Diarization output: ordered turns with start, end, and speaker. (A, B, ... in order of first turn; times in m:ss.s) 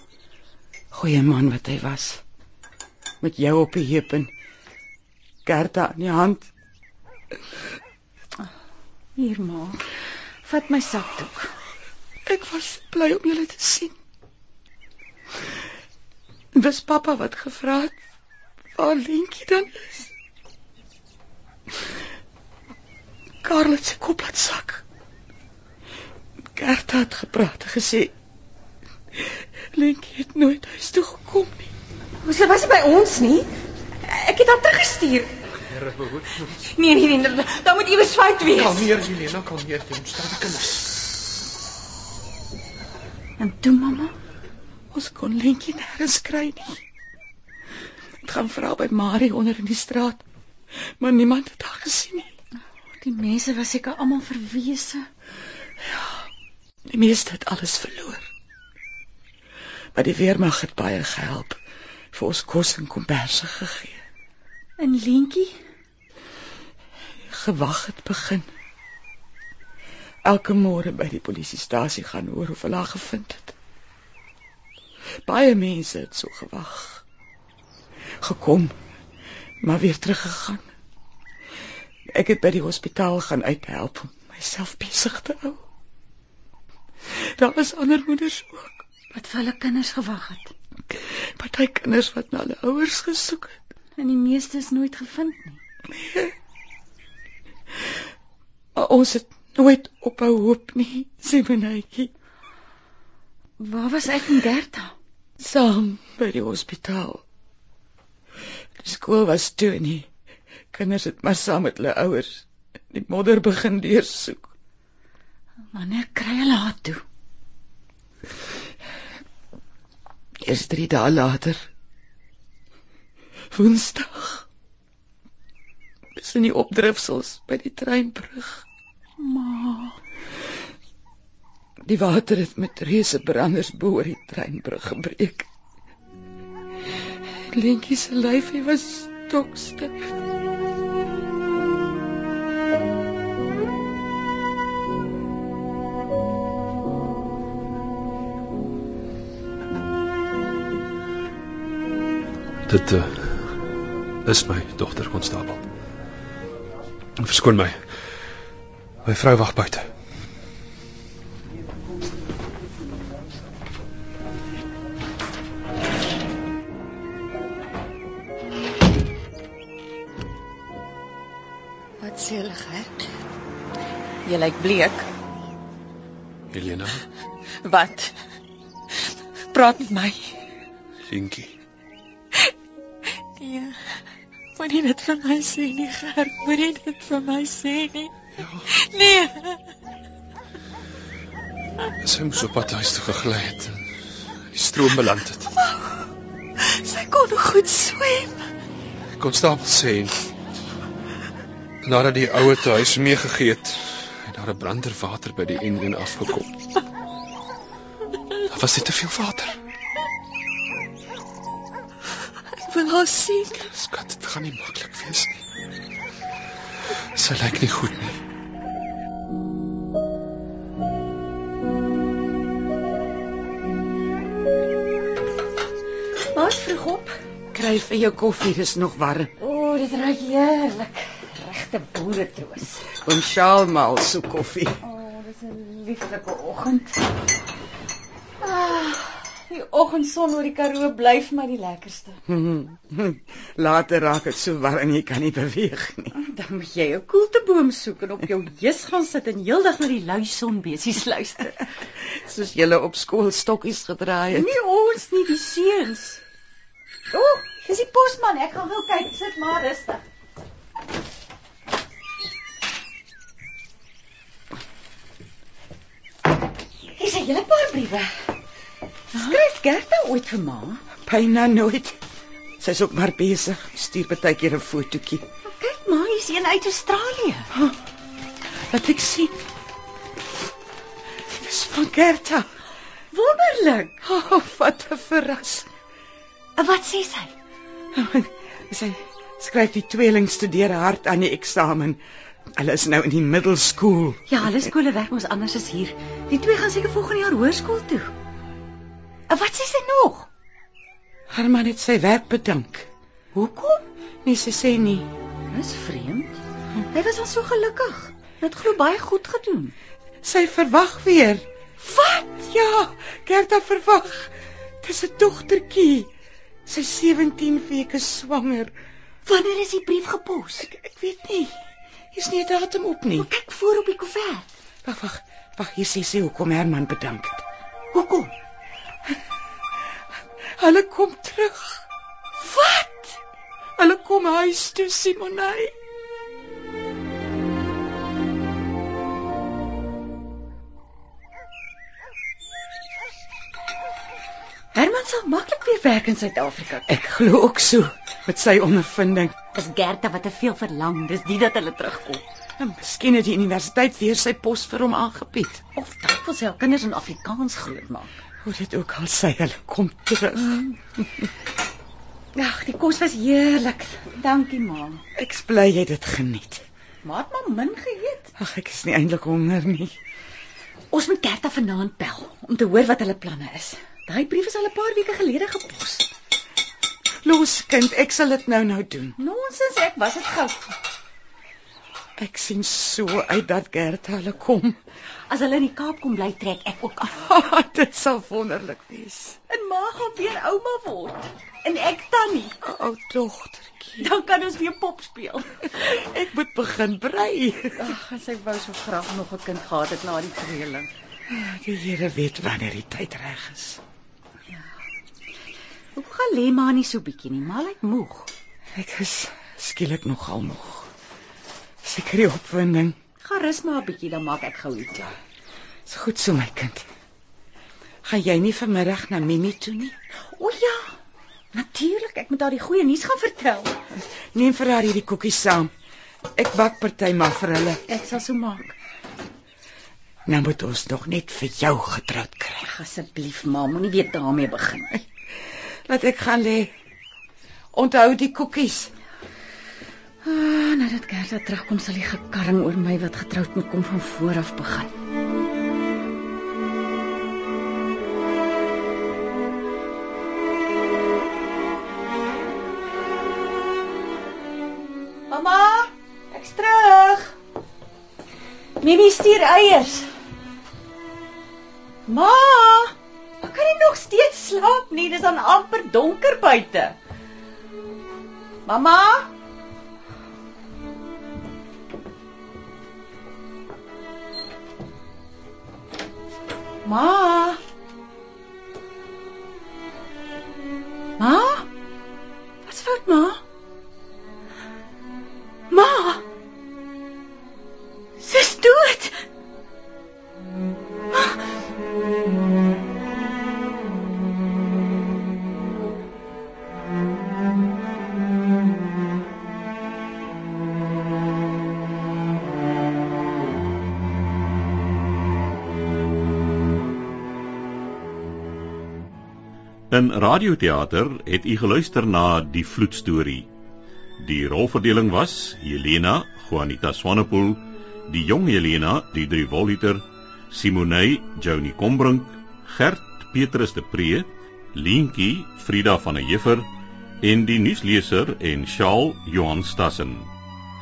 0:00.9-0:02.2 A
0:03.2-0:04.3 A
0:05.5-0:06.5 A
0:09.2-0:09.9 B
0:10.4-0:11.5 B
0:12.3-0:14.0 A
0:16.5-0:18.0 A
0:18.8-0:20.1 A
0:23.4-0:24.8 A
0:26.5-0:28.1 A
0:29.2-0:31.7 A
0:32.3-0:33.5 C
0:32.3-0:33.1 B
0:34.1-0:35.3 B
0:34.6-0:35.0 C
0:35.6-0:36.5 D
0:36.8-0:38.3 C
0:36.8-0:38.7 B
0:38.5-0:40.9 D
0:43.4-0:44.2 B
0:44.9-0:46.8 A
0:48.2-0:50.2 A
0:50.9-0:52.3 A
0:53.0-0:55.1 B
0:55.8-0:56.2 A
0:56.9-0:58.3 A
1:00.0-1:01.6 A
1:02.1-1:04.0 A
1:04.8-1:05.6 B
1:07.3-1:08.5 A
1:10.2-1:13.6 A
1:15.3-1:17.0 A
1:18.2-1:18.8 A
1:19.6-1:20.7 A
1:22.1-1:25.6 A
1:27.1-1:28.8 A
1:29.1-1:30.5 B
1:30.9-1:33.6 A
1:34.0-1:35.6 B
1:35.9-1:36.3 A
1:38.8-1:42.1 A
1:43.6-1:44.9 B
1:45.4-1:47.2 A
1:48.8-1:50.1 A
1:50.7-1:54.5 A
1:55.7-1:57.0 B
2:00.4-2:01.6 A
2:03.5-2:04.5 A
2:06.2-2:08.6 A
2:09.2-2:10.0 B
2:11.8-2:15.5 A
2:17.3-2:20.1 A
2:32.7-2:33.5 D
2:34.2-2:35.6 D
2:37.2-2:37.8 D
2:39.0-2:39.9 D
2:52.0-2:52.9 C
2:54.3-2:54.9 B
2:54.3-2:55.0 C
2:56.5-2:57.0 D
2:57.7-2:58.1 C
2:59.5-3:00.3 C
3:01.1-3:01.6 D
3:03.4-3:03.9 C
3:04.6-3:08.1 C
3:08.4-3:08.7 D
3:08.7-3:09.6 C
3:12.0-3:13.9 D
3:14.5-3:15.5 D
3:15.5-3:16.0 C
3:16.6-3:18.4 C
3:19.2-3:20.2 D
3:21.8-3:26.6 D
3:28.5-3:29.6 D
3:32.6-3:33.6 C
3:33.5-3:35.4 D
3:37.1-3:38.2 D
3:46.3-3:47.2 B
3:47.5-3:49.3 A
3:49.4-3:52.9 B
3:53.0-3:54.8 A
3:54.8-3:57.0 B
3:58.4-4:02.2 B
4:02.3-4:06.2 A
4:06.1-4:11.7 B
4:12.0-4:14.6 A
4:14.3-4:16.2 B
4:17.1-4:20.0 B
4:26.9-4:28.3 B
4:29.1-4:30.8 B
4:31.0-4:32.0 A
4:32.6-4:35.2 A
4:35.5-4:37.5 B
4:37.5-4:37.8 A
4:38.7-4:39.4 A
4:41.2-4:42.5 A
4:43.1-4:44.0 B
4:44.0-4:45.7 A
4:46.6-4:47.3 B
4:47.9-4:52.0 A
4:52.5-4:54.7 A
4:54.3-4:58.1 B
4:59.3-5:00.3 B
5:01.3-5:02.9 A
5:03.4-5:03.8 B
5:04.2-5:05.1 A
5:05.5-5:09.7 B
5:10.2-5:16.1 A
5:11.8-5:12.5 B
5:16.7-5:18.7 A
5:19.3-5:20.7 B
5:20.6-5:21.6 A
5:22.1-5:23.3 A
5:23.1-5:24.5 B
5:24.8-5:27.4 A
5:27.9-5:28.3 B
5:30.6-5:31.8 A
5:32.4-5:33.1 B
5:33.8-5:35.7 A
5:44.7-5:47.0 B
5:46.9-5:49.4 A
5:49.5-5:52.2 B
5:52.6-5:55.6 A
5:55.8-5:58.2 B
5:58.4-6:01.2 A
6:00.4-6:00.7 B
6:02.3-6:05.0 B
6:05.2-6:06.6 A
6:07.0-6:08.3 B
6:08.4-6:10.0 A
6:10.9-6:16.1 B
6:17.2-6:19.2 A
6:19.2-6:20.7 B
6:22.2-6:24.8 A
6:25.3-6:27.2 B
6:27.2-6:29.4 A
6:29.5-6:32.6 B
6:32.6-6:34.1 A
6:34.0-6:35.8 B
6:35.8-6:37.9 A
6:37.8-6:40.9 B
6:41.3-6:43.8 A
6:46.0-6:48.3 B
6:48.7-6:50.9 A
6:51.8-6:53.0 A
6:53.2-6:55.1 B
6:55.9-6:56.9 A
6:58.0-7:00.0 A
7:00.2-7:01.0 B
7:01.5-7:03.7 B
7:04.3-7:05.7 A
7:06.4-7:07.8 A
7:07.9-7:08.8 B
7:10.3-7:12.7 A
7:12.6-7:15.0 B
7:15.9-7:16.7 A
7:17.7-7:18.9 A
7:20.2-7:24.9 B
7:35.3-7:37.4 B
7:38.8-7:40.1 B
7:42.1-7:47.0 B
7:48.7-7:49.3 B
7:56.8-7:57.6 B
8:01.2-8:01.7 B
8:02.6-8:03.4 B
8:05.7-8:06.2 B
8:08.2-8:09.2 B
8:29.9-8:33.5 E
8:34.2-8:46.7 E
8:47.2-8:50.3 E